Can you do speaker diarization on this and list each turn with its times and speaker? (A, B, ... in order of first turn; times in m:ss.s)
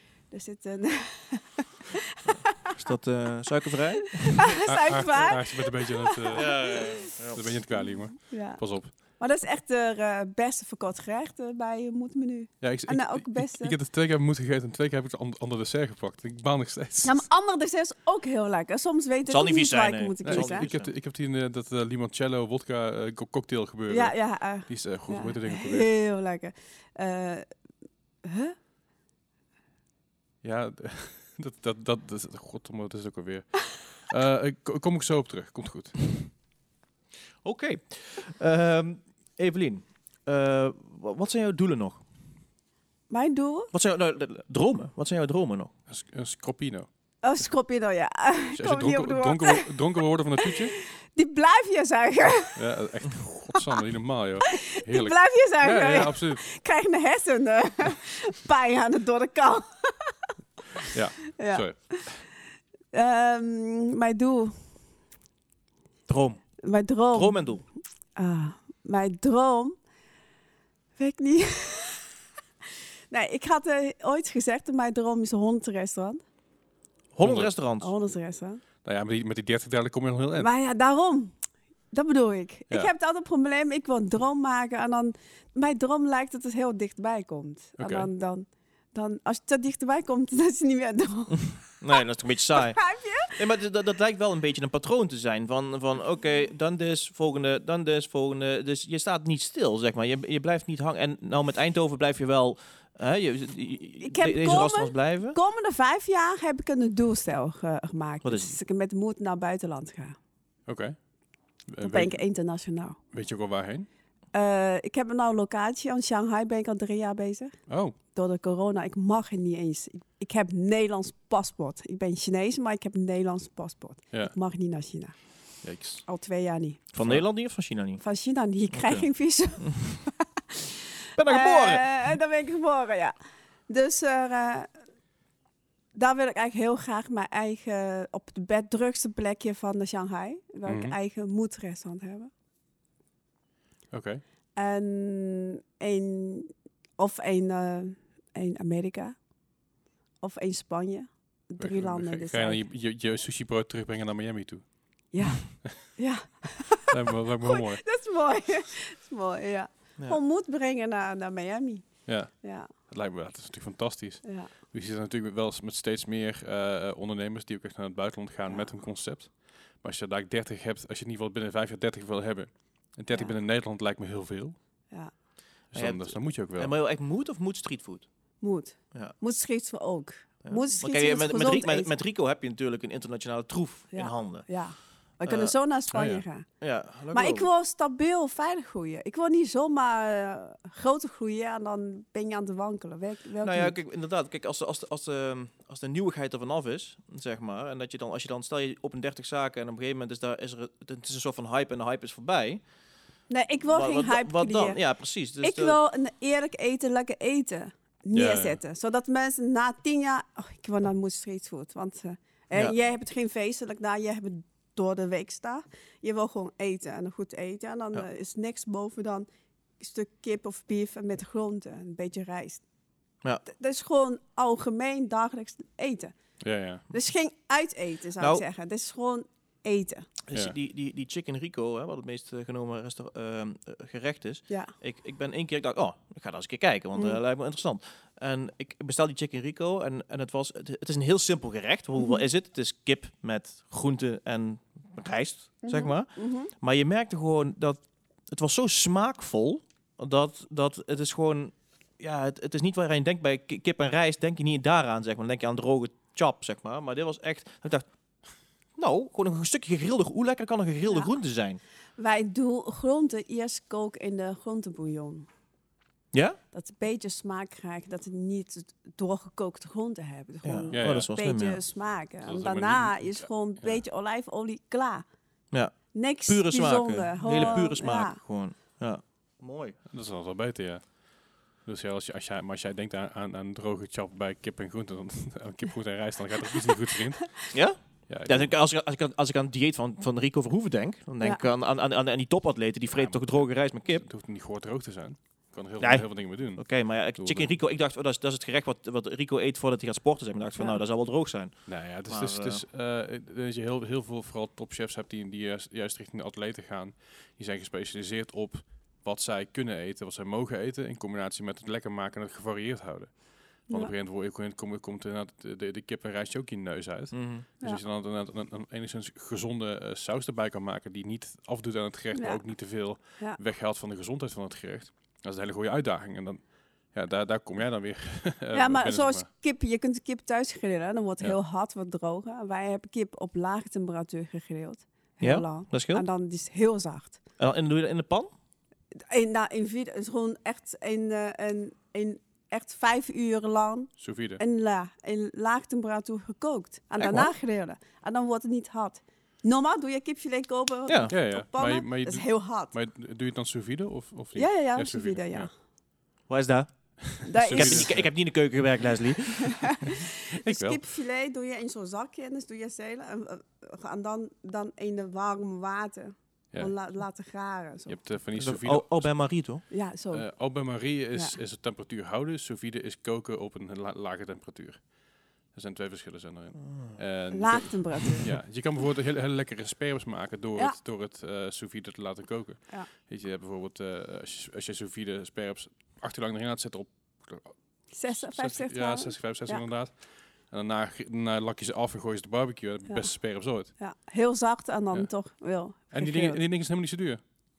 0:00.3-0:02.7 A
0:02.6-0:04.5 B
0:04.4-0:07.1 A
0:04.6-0:08.9 C
0:06.3-0:07.4 B
0:08.3-0:13.7 A
0:12.6-0:17.2 C
0:17.0-0:20.7 A
0:19.3-0:20.9 B
0:20.2-0:25.9 C
0:23.9-0:27.5 A
0:28.2-0:28.5 A
0:30.4-0:36.3 C
0:37.4-0:42.0 B
0:43.1-0:43.7 A
0:43.7-0:45.7 B
0:45.9-0:46.9 C
0:47.2-0:49.7 A
0:48.5-0:50.7 C
0:50.4-0:52.6 A
0:52.5-0:56.4 C
0:54.5-1:02.1 A
1:00.9-1:02.2 C
1:02.9-1:04.6 A
1:06.1-1:06.4 B
1:06.6-1:07.6 A
1:07.1-1:07.6 B
1:08.2-1:09.8 A
1:11.0-1:12.0 A
1:13.1-1:16.2 A
1:17.1-1:17.9 B
1:17.2-1:17.5 C
1:17.8-1:18.6 A
1:18.8-1:20.5 C
1:20.4-1:21.3 A
1:21.9-1:32.0 A
1:27.8-1:28.1 C
1:31.3-1:45.4 B
1:32.6-1:33.3 A
1:44.0-1:50.2 A
1:48.2-1:48.6 B
1:50.7-1:51.0 C
1:51.6-1:52.2 C
1:51.8-1:53.0 A
1:53.1-1:53.9 C
1:54.3-1:57.6 A
1:57.7-1:57.9 C
1:58.1-2:05.2 A
2:05.6-2:06.0 C
2:06.0-2:06.9 A
2:06.9-2:08.0 B
2:08.0-2:10.2 A
2:08.8-2:09.0 C
2:09.6-2:10.0 B
2:11.2-2:12.2 B
2:11.2-2:13.1 A
2:13.7-2:14.7 A
2:15.9-2:22.3 A
2:20.6-2:21.0 C
2:23.9-2:24.2 C
2:24.6-2:29.2 A
2:30.2-2:32.6 A
2:31.6-2:34.6 C
2:35.1-2:41.9 A
2:36.9-2:37.8 C
2:42.0-2:54.5 C
2:42.4-2:42.7 A
2:44.2-2:44.5 A
2:53.1-2:53.4 A
2:55.7-2:56.7 C
2:55.7-2:58.0 B
2:58.4-3:01.9 A
3:00.4-3:04.5 B
3:03.9-3:06.4 A
3:05.2-3:05.5 B
3:05.9-3:06.2 C
3:06.6-3:07.5 B
3:07.1-3:13.8 A
3:13.4-3:22.6 B
3:23.3-3:24.8 A
3:23.7-3:25.8 B
3:25.4-3:39.3 A
3:28.1-3:28.6 C
3:39.8-3:42.6 A
3:43.4-3:46.1 A
3:46.4-3:46.8 C
3:46.9-3:50.1 A
3:48.2-3:48.4 B
3:50.3-4:17.9 B
4:05.6-4:06.5 A
4:18.8-4:21.6 B
4:22.0-4:25.2 A
4:26.1-4:26.4 B
4:26.5-4:35.0 A
4:30.4-4:31.6 B
4:30.7-4:31.1 C
4:32.2-4:33.8 C
4:35.5-4:39.8 B
4:35.9-4:38.2 A
4:37.2-4:37.6 C
4:39.9-4:41.0 C
4:41.5-4:47.5 C
4:47.5-4:54.0 B
4:48.1-4:48.5 C
4:52.9-4:56.6 C
4:55.8-5:02.6 B
4:57.2-4:57.5 C
5:01.7-5:29.3 C
5:17.1-5:17.4 B
5:22.1-5:22.4 A
5:28.5-5:37.2 A
5:35.2-5:36.0 B
5:37.4-5:38.3 B
5:39.1-5:52.7 A
5:44.0-5:44.4 C
5:47.0-5:47.3 B
5:50.9-5:51.1 B
5:51.1-5:55.5 C
5:54.3-5:55.5 A
5:56.3-5:59.7 B
5:57.0-5:58.1 C
5:57.2-5:58.0 A
5:59.4-6:08.0 A
5:59.6-6:00.8 C
6:07.9-6:09.2 C
6:08.4-6:09.6 B
6:09.7-6:10.3 A
6:10.1-6:14.9 C
6:15.5-6:27.5 C
6:16.6-6:17.0 B
6:17.3-6:18.3 A
6:27.9-6:29.6 A
6:28.1-6:33.7 C
6:33.8-6:36.4 A
6:35.9-6:37.2 C